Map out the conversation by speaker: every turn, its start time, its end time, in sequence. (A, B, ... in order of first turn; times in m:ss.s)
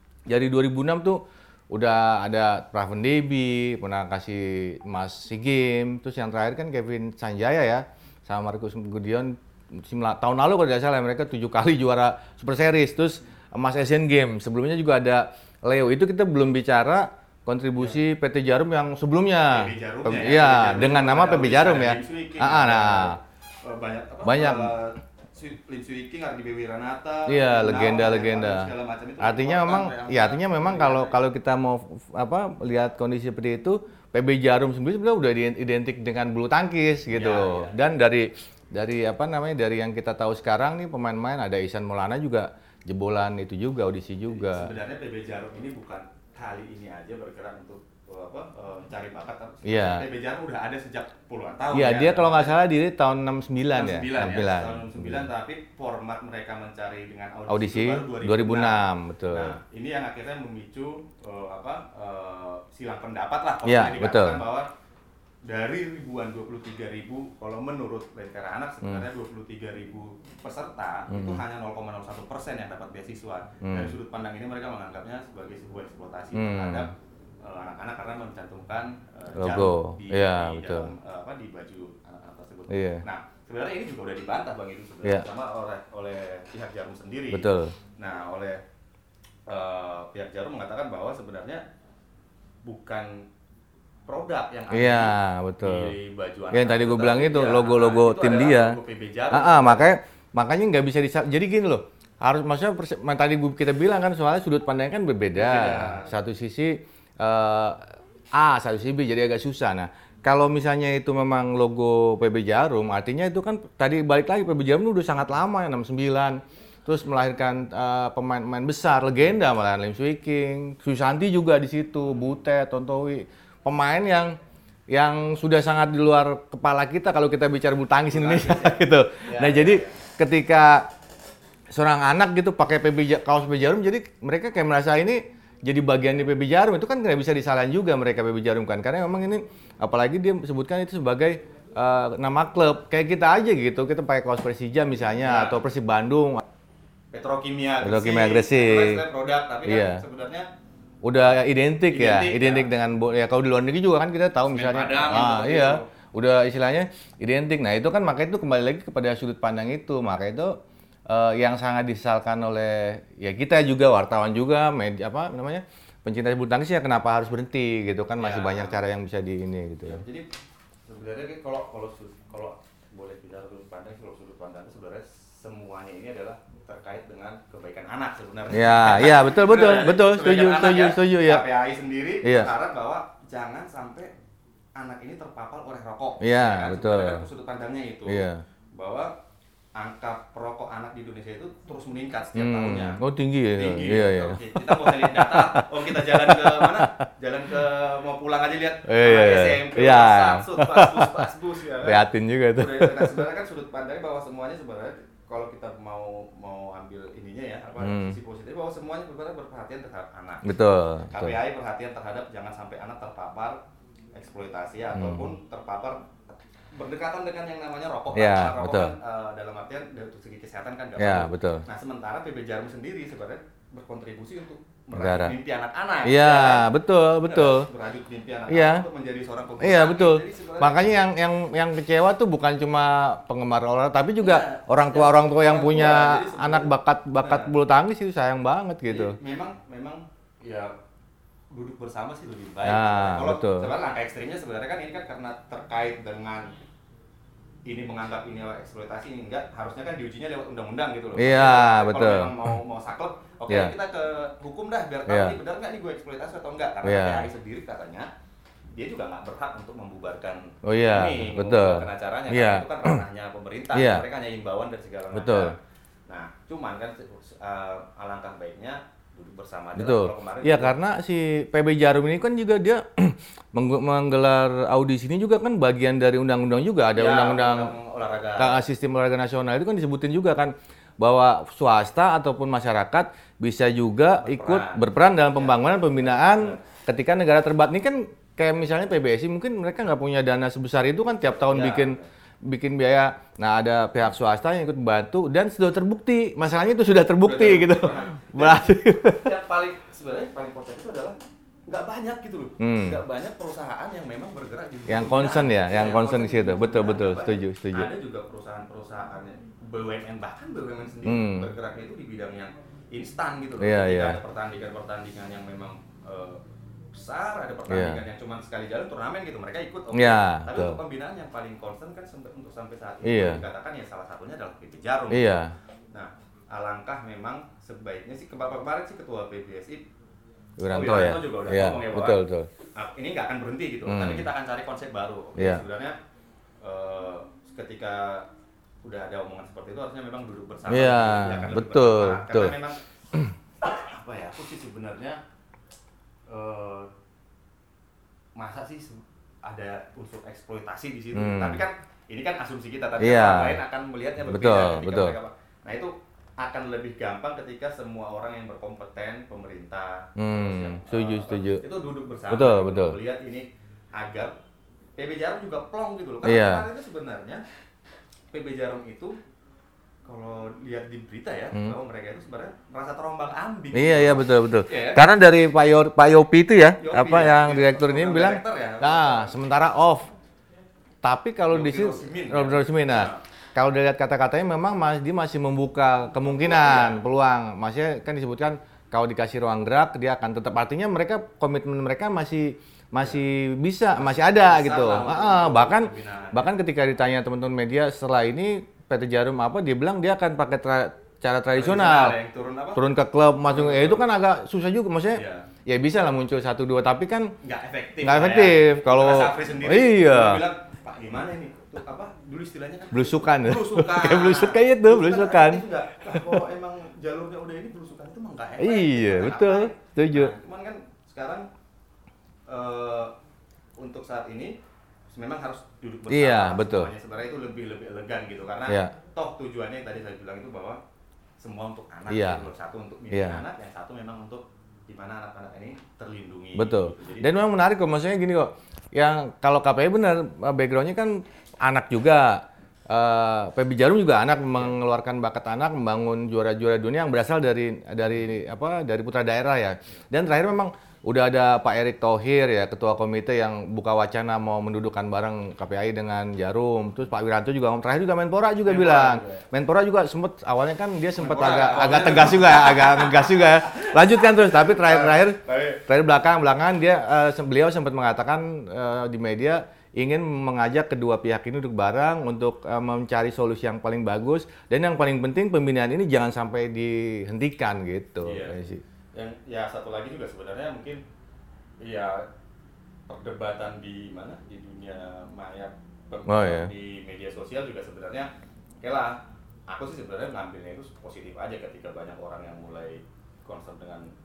0:00.3-0:23.2 A
0:19.5-0:31.2 B
0:24.2-0:24.7 A
0:27.3-0:44.7 A
0:37.1-0:37.8 B
0:44.3-0:52.6 B
0:49.6-0:50.0 A
0:51.7-0:55.3 A
0:53.7-1:04.7 B
0:57.5-0:59.5 A
1:03.6-1:04.4 A
1:05.4-1:16.9 B
1:11.1-1:11.4 A
1:13.6-1:13.9 A
1:16.3-1:16.9 A
1:17.4-1:28.6 B
1:19.4-1:20.9 A
1:22.7-1:23.0 A
1:27.3-1:27.7 A
1:29.5-1:31.6 B
1:32.6-1:33.2 B
1:34.1-1:39.9 B
1:34.7-1:35.9 A
1:36.5-1:38.8 A
1:39.3-2:04.4 A
1:45.3-1:46.1 B
2:04.9-2:10.8 A
2:08.0-2:10.0 B
2:11.7-2:26.4 A
2:25.2-2:25.6 B
2:27.1-2:30.5 B
2:27.8-2:29.0 A
2:29.6-2:30.0 A
2:31.0-2:40.5 A
2:31.9-2:32.7 B
2:34.4-2:35.9 B
2:41.1-2:50.0 A
2:48.2-2:48.8 B
2:49.8-2:50.3 B
2:50.9-3:04.1 B
2:58.5-3:01.4 A
3:02.2-3:02.5 A
3:04.8-3:09.1 B
3:06.2-3:07.2 A
3:08.0-3:08.4 A
3:09.8-3:13.0 B
3:12.3-3:16.8 A
3:13.5-3:30.4 B
3:18.8-3:21.2 A
3:21.8-3:23.2 A
3:27.8-3:28.2 A
3:30.4-3:31.4 A
3:31.1-3:33.6 B
3:34.1-3:46.7 B
3:34.9-3:35.3 A
3:38.1-3:38.9 A
3:41.0-3:41.6 A
3:44.9-3:45.3 A
3:46.0-3:47.6 A
3:47.2-3:50.8 B
3:48.5-3:48.8 A
3:49.6-3:59.2 A
3:54.2-3:57.5 B
3:58.8-4:00.7 B
4:01.5-4:06.5 B
4:02.6-4:03.7 A
4:07.6-4:18.1 B
4:11.2-4:12.5 A
4:13.5-4:13.7 A
4:15.1-4:15.4 A
4:16.8-4:17.3 A
4:18.7-4:25.6 B
4:20.6-4:23.0 A
4:23.7-4:24.0 A
4:25.1-4:25.5 A
4:26.1-4:30.8 B
4:29.8-4:37.7 A
4:36.9-4:38.6 B
4:38.4-4:59.3 A
4:44.2-4:46.6 B
4:51.4-4:52.0 B
4:57.2-5:16.4 B
5:02.6-5:03.0 A
5:04.9-5:07.9 A
5:11.0-5:11.5 A
5:13.6-5:14.2 A
5:16.9-5:25.4 B
5:17.7-5:18.0 A
5:19.9-5:20.8 A
5:23.0-5:23.4 A
5:25.1-5:25.5 A
5:25.9-5:29.8 B
5:30.6-5:32.5 A
5:30.7-5:32.2 B
5:32.7-5:36.0 B
5:33.8-5:34.3 A
5:35.4-5:35.6 A
5:36.6-5:38.3 B
5:38.8-5:42.8 B
5:40.7-5:42.5 A
5:43.6-5:45.2 B
5:46.3-5:46.9 B
5:48.3-6:04.3 B
5:51.1-5:51.6 A
5:53.0-5:53.6 A
5:54.2-5:55.2 A
6:00.2-6:01.6 A
6:02.3-6:03.0 A
6:05.0-6:07.4 B
6:06.2-6:06.6 A
6:08.3-6:09.2 B
6:10.0-6:15.0 B
6:13.7-6:20.1 A
6:16.8-6:19.3 B
6:21.0-6:42.2 A
6:21.5-6:23.2 B
6:26.2-6:27.0 B
6:34.0-6:36.5 B
6:41.5-6:42.8 B
6:42.7-6:47.3 A
6:43.5-6:44.0 B
6:45.1-6:45.5 B
6:47.4-7:01.5 B
6:48.0-6:50.4 A
6:52.9-6:56.3 A
6:58.6-7:00.3 A
7:02.5-7:03.1 B
7:03.8-7:04.5 B
7:05.1-7:10.8 B
7:06.1-7:06.9 A
7:08.7-7:08.9 A
7:11.4-7:17.3 B
7:12.1-7:12.4 A
7:13.1-7:13.4 A
7:16.5-7:58.8 A
7:38.6-7:39.4 B
7:41.2-7:45.8 B
7:58.2-7:58.6 B
7:59.1-8:01.0 B
8:01.8-8:02.2 B
8:03.1-8:08.3 B
8:06.3-8:06.7 A
8:08.8-8:14.1 B